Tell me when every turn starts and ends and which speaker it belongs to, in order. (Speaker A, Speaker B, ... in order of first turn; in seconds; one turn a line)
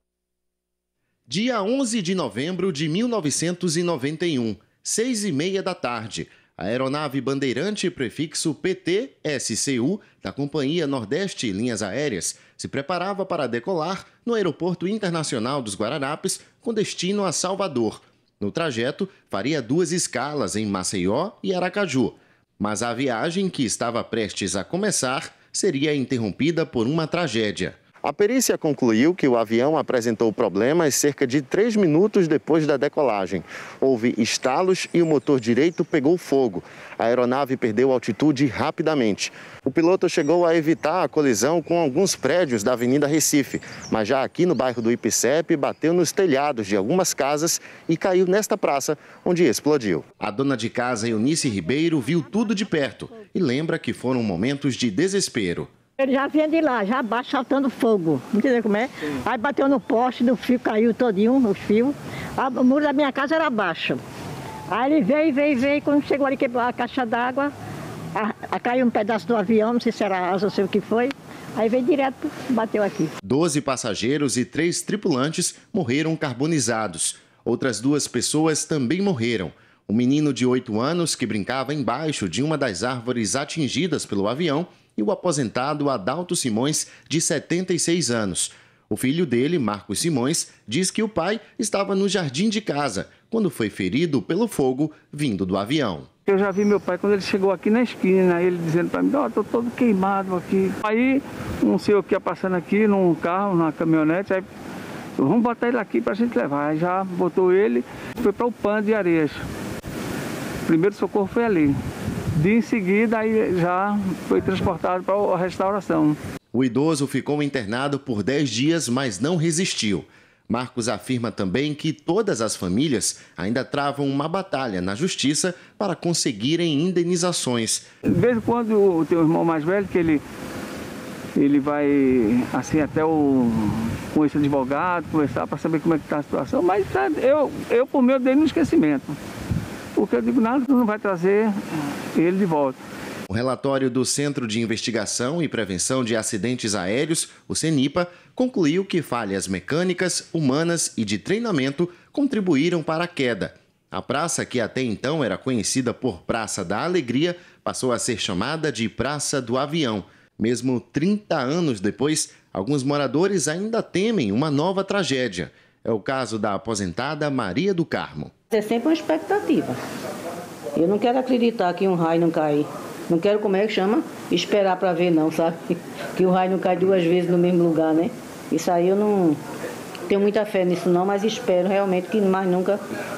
Speaker A: 1.3-55.7
Speaker B: 56.0-64.0
Speaker B: 64.7-67.5
Speaker B: 68.1-73.1
Speaker A: 73.2-96.1
Speaker C: 96.3-104.5
Speaker C: 105.2-109.4
Speaker C: 110.7-111.7
Speaker C: 112.4-116.2
Speaker A: 116.5-127.8
Speaker C: 128.1-130.2
Speaker C: 131.3-139.2
Speaker C: 140.0-141.5
Speaker C: 142.1-142.8
Speaker A: 143.3-168.3
Speaker D: 168.5-169.8
Speaker D: 170.7-179.4
Speaker D: 180.1-182.8